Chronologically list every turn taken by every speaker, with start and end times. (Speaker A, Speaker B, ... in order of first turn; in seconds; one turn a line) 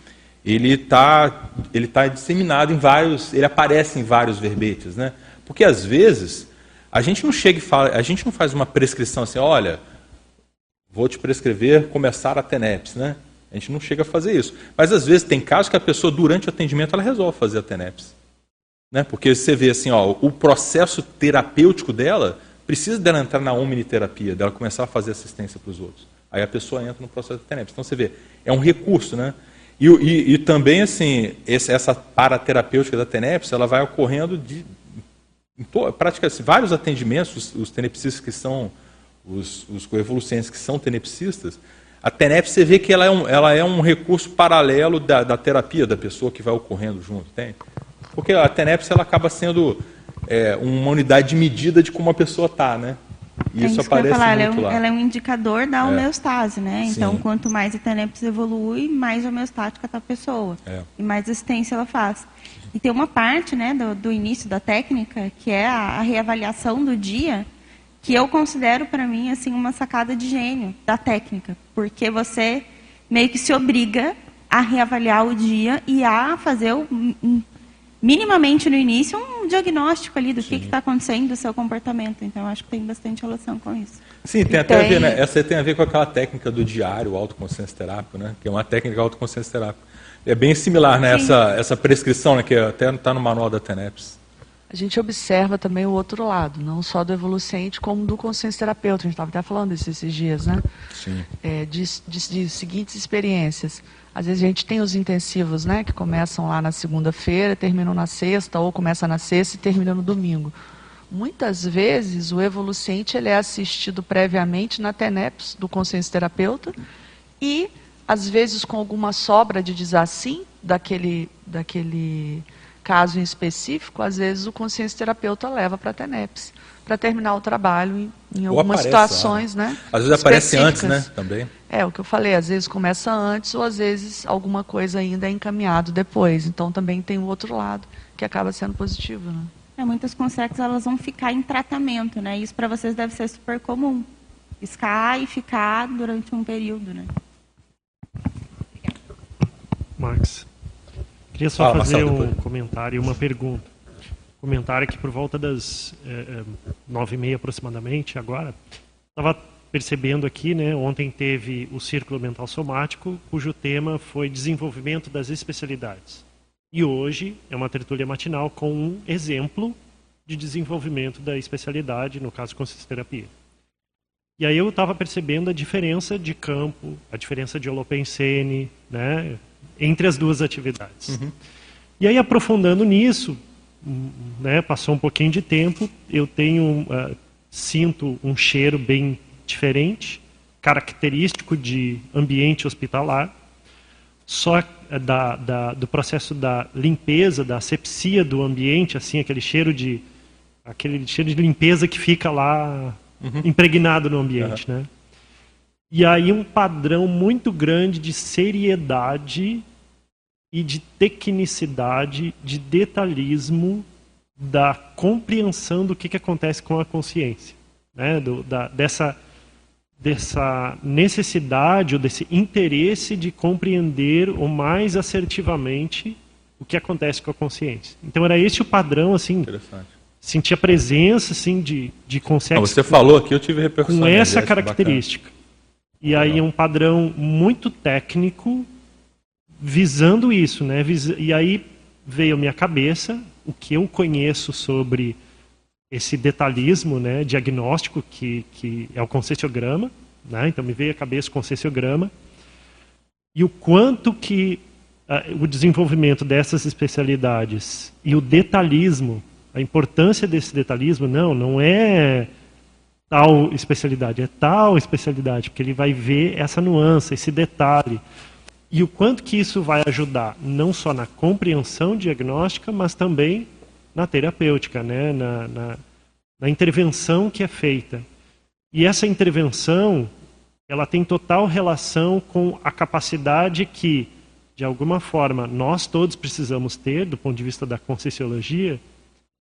Speaker A: 0.4-9.8
Speaker A: 10.9-18.1
Speaker A: 18.9-34.7
Speaker A: 35.6-38.7
Speaker A: 39.2-47.6
Speaker A: 48.1-53.0
Speaker A: 53.5-54.8
Speaker B: 53.6-67.5
Speaker A: 56.8-57.2
Speaker B: 68.0-77.4
Speaker B: 78.0-85.2
Speaker A: 80.5-80.7
Speaker A: 84.2-94.2
Speaker B: 91.1-91.4
Speaker C: 94.7-100.6
Speaker A: 100.9-101.2
Speaker C: 101.4-110.5
Speaker C: 111.1-116.7
Speaker C: 117.4-131.1
Speaker A: 128.5-131.5
Speaker C: 131.7-139.5
Speaker B: 139.8-144.1
Speaker B: 144.6-147.1
Speaker D: 150.0-150.4
Speaker D: 151.3-153.7
Speaker A: 151.6-152.4
Speaker D: 154.4-158.6
Speaker D: 159.2-173.3
Speaker D: 174.4-181.2
Speaker A: 181.1-181.3
Speaker D: 182.0-193.3
Speaker D: 194.3-200.0
Speaker D: 200.6-204.9
Speaker A: 203.2-203.5
Speaker D: 205.9-209.7
Speaker D: 210.5-213.8
Speaker D: 214.4-219.2
Speaker D: 220.0-229.5
Speaker A: 229.4-229.9
Speaker D: 230.2-233.0
Speaker A: 232.5-235.0
Speaker D: 233.8-235.3
Speaker D: 236.0-238.7
Speaker A: 236.1-236.4
Speaker D: 239.6-245.2
Speaker D: 245.9-252.1
Speaker D: 253.3-262.3
Speaker D: 263.1-268.0
Speaker D: 268.7-275.8
Speaker D: 276.4-278.1
Speaker D: 278.7-280.1
Speaker D: 280.7-288.8